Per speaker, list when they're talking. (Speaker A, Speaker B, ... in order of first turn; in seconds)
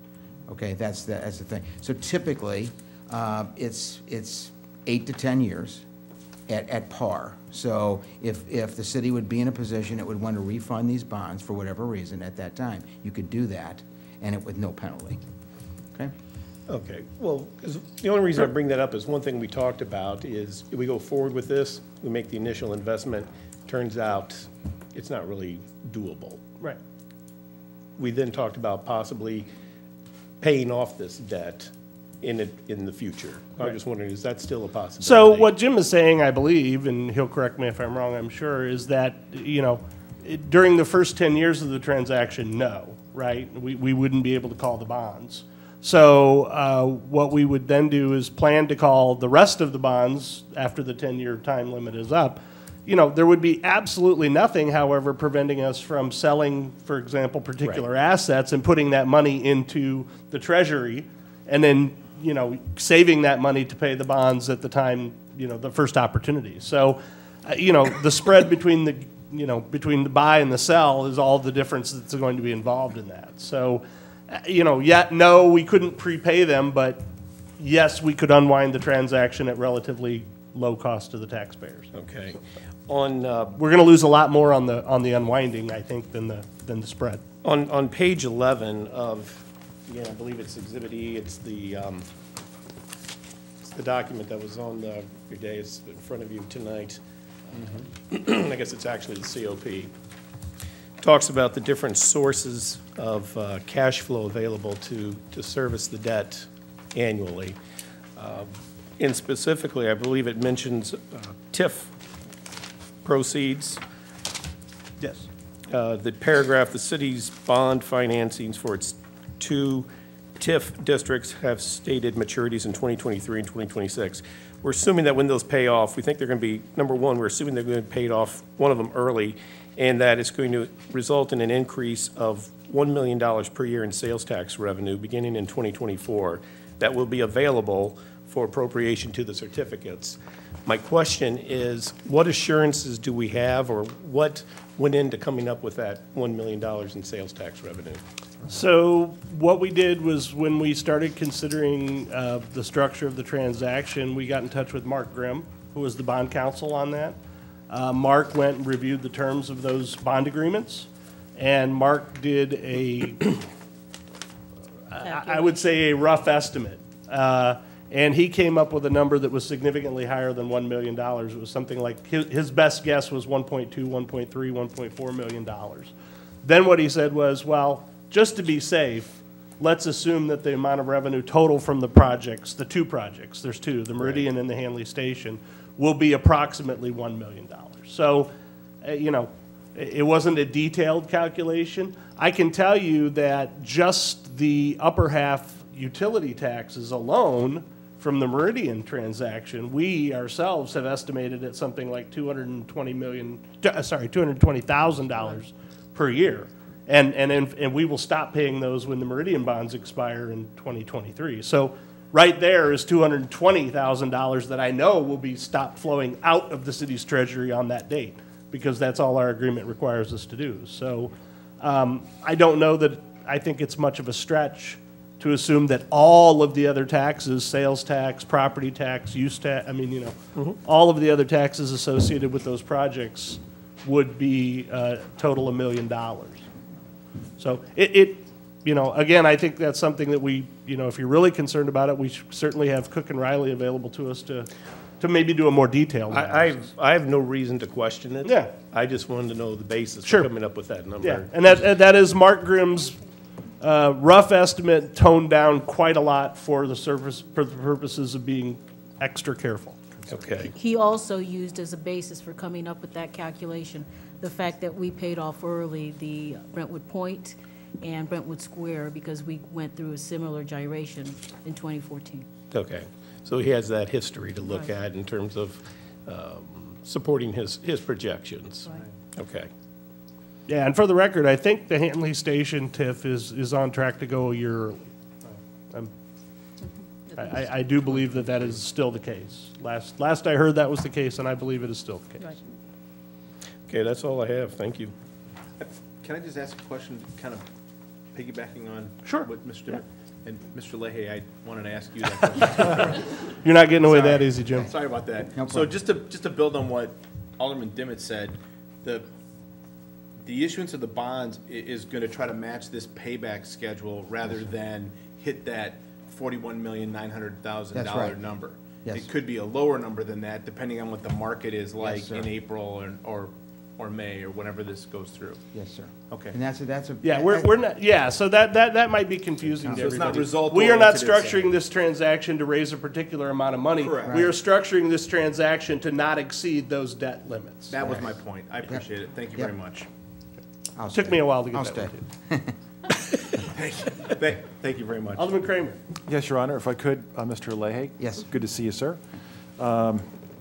Speaker A: 0.5-5.8, 6.5-15.2, 305.3-305.7, 317.7-318.2, 321.8-322.2, 325.5-327.5, 329.4-330.2, 334.0-334.3, 337.8-338.1, 340.8-342.6, 348.0-348.3
Speaker B: 16.7-26.4, 28.0-29.5, 30.4-35.5, 81.9-83.6, 87.4-92.0, 93.6-97.0, 97.5-99.9, 101.0-107.5, 108.2-111.9, 113.0-113.8, 115.7-148.0, 246.1-251.6, 260.1-260.5, 272.5-279.5, 293.7-294.9
Speaker C: 35.0-77.0, 77.6-81.9, 83.5-87.2, 115.0-115.3, 148.5-157.2, 157.7-163.4, 164.9-175.9, 176.4-188.3, 188.8-236.4, 237.4-244.5, 245.0-246.7, 248.2-248.6, 250.0-250.3, 251.0-253.0, 253.6-259.8, 280.5-284.9, 287.2-292.3, 299.0-299.3, 303.4-304.7, 327.0-337.7, 340.9-342.0, 345.1-345.8
Speaker D: 165.0-165.6, 260.4-272.3, 287.1-287.7
Speaker E: 295.6-297.4, 298.1-303.0, 303.8-309.1, 310.2-325.4, 326.1-326.4, 329.7-331.6, 333.8-334.2, 337.7-339.9, 344.2-345.3
Speaker F: 346.1-349.0, 349.6-350.1